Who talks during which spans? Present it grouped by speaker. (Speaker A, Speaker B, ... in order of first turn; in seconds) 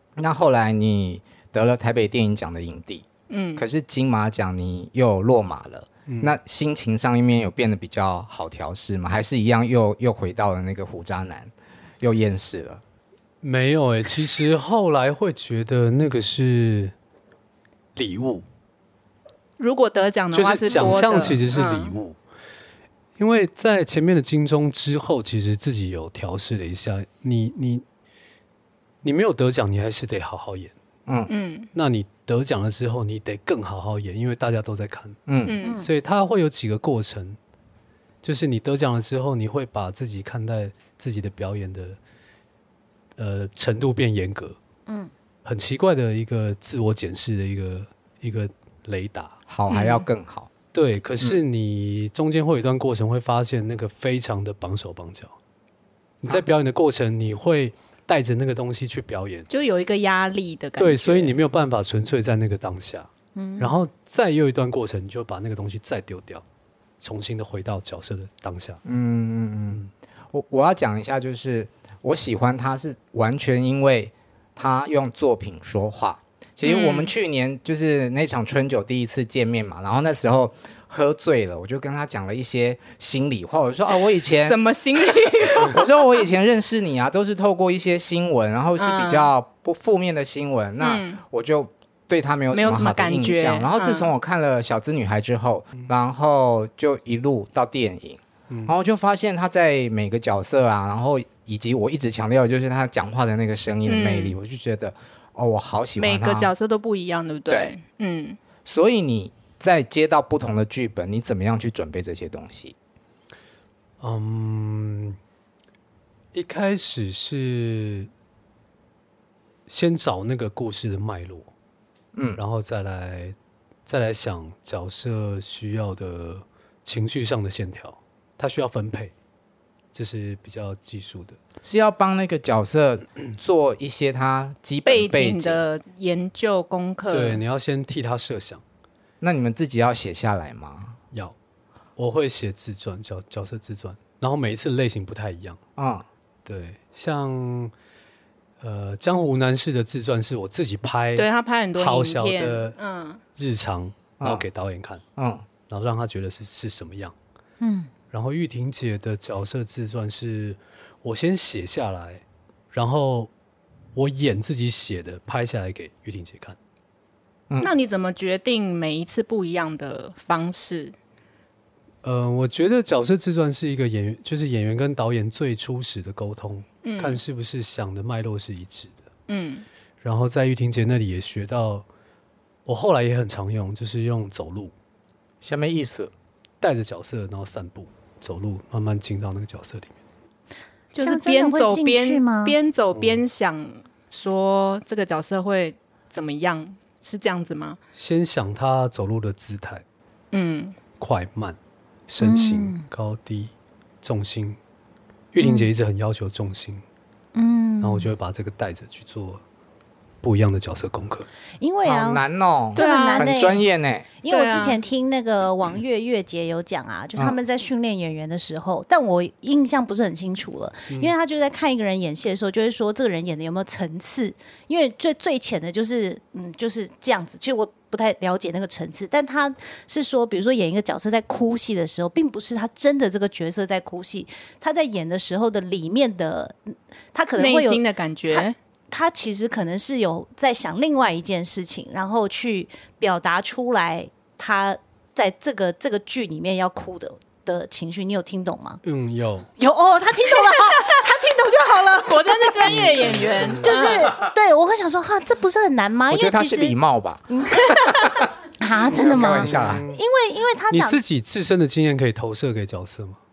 Speaker A: 0.2-3.0, 3.6-12.8, 20.7-21.0, 31.1-31.3, 35.3-35.6, 49.5-50.5, 68.8-69.8, 70.3-84.6, 85.2-106.5, 107.5-107.7, 108.6-112.7, 122.1-122.4, 131.6-135.6, 139.2-141.0, 145.8-146.1, 154.2-154.4, 155.2-155.4, 185.4-186.1, 211.8-214.1, 256.1-258.2, 258.9-259.8
Speaker B: 3.3-3.6, 19.6-21.9, 31.3-31.7, 35.4-35.8, 49.7-50.0, 59.5-61.3, 76.6-77.1, 83.9-86.0, 88.8-89.3, 90.8-91.2, 92.5-94.1, 103.8-104.3, 106.0-108.4, 134.8-137.4, 151.2-153.2, 167.6-170.9, 176.8-177.2, 179.3-179.7, 190.9-197.8, 200.3-200.8, 212.7-213.4, 214.3-214.8, 237.4-238.6, 252.1-254.1
Speaker C: 6.1-6.3, 13.4-16.9, 17.9-18.4, 20.3-22.2, 23.2-27.8, 29.0-30.7, 31.7-35.2, 35.8-37.4, 38.2-42.0, 43.2-44.6, 45.4-49.4, 50.7-55.3, 56.2-59.5, 60.8-66.4, 67.0-68.8, 114.0-115.2, 116.3-118.1, 119.7-121.5, 122.3-129.1, 129.9-131.4, 137.1-138.6, 142.0-145.6, 146.4-147.7, 148.6-152.8, 153.3-155.0, 155.7-157.1, 158.1-163.3, 163.9-166.6, 172.0-179.0, 180.0-181.8, 182.7-184.7, 186.6-189.9, 192.9-193.2, 197.9-199.8, 201.0-201.6, 202.1-204.6, 205.3-206.8, 207.8-209.4, 210.2-211.3, 248.8-249.5, 259.0-260.0, 260.7-263.2
Speaker D: 35.6-35.9, 44.9-45.1, 63.3-63.7, 157.6-157.9, 191.0-192.6, 202.2-202.8, 205.4-205.7, 207.3-208.1, 211.6-212.2, 212.7-213.6, 214.2-248.8, 249.6-256.7, 257.3-257.9, 258.6-261.0